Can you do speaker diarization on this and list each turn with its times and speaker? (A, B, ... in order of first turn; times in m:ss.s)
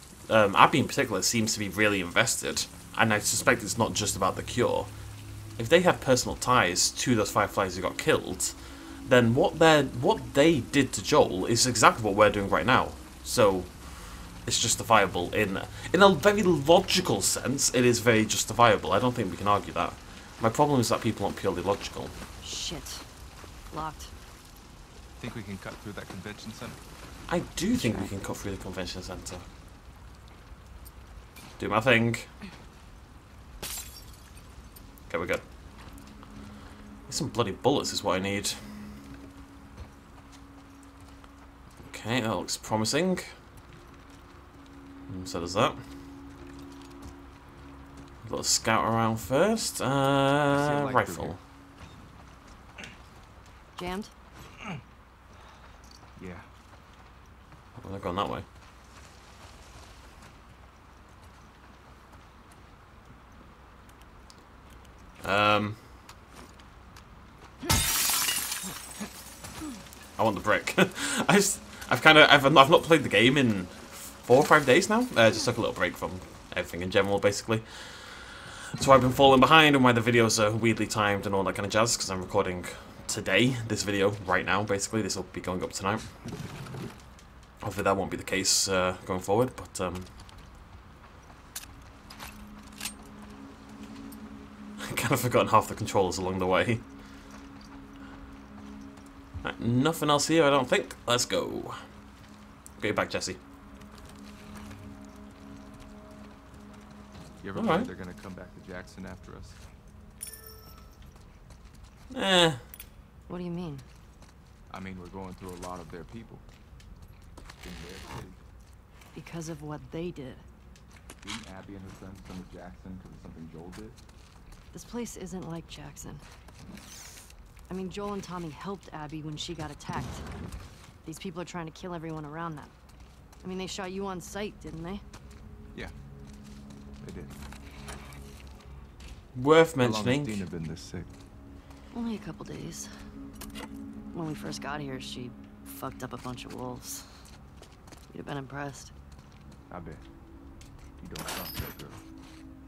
0:00.3-0:04.9 A
0:05.6-0:08.5 A
0:09.0-0:22.1 A
0:22.4-0:23.1 B
0:23.7-0:24.1 B
0:25.2-0:26.8 C
0:27.3-0:29.4 A
0:27.7-0:28.1 B
0:31.6-0:32.3 A
0:35.1-0:35.4 A
0:37.1-0:38.6 A
0:41.8-0:43.3 A
0:45.1-0:45.8 A
0:48.2-0:51.4 A
0:50.5-0:51.4 C
0:53.7-0:54.1 B
0:56.2-0:56.5 C
0:57.8-0:58.4 A
1:05.2-1:05.8 A
1:10.2-1:26.1 A
1:27.6-1:30.1 A
1:34.8-1:36.8 A
1:39.4-1:41.8 A
1:42.8-1:43.4 A
1:47.4-1:49.6 C
1:47.5-1:47.9 A
1:52.1-1:52.6 A
1:53.3-1:53.8 B
1:54.7-1:56.4 C
1:57.6-1:58.4 C
1:59.1-2:00.4 B
2:01.2-2:04.0 C
2:04.7-2:06.2 B
2:07.7-2:10.2 B
2:11.0-2:12.7 B
2:13.4-2:15.0 B
2:17.0-2:17.3 C
2:19.3-2:20.4 A
2:19.8-2:21.1 C
2:21.9-2:23.0 B
2:24.1-2:27.2 B
2:28.1-2:28.9 B
2:29.7-2:30.0 C
2:31.0-2:32.0 C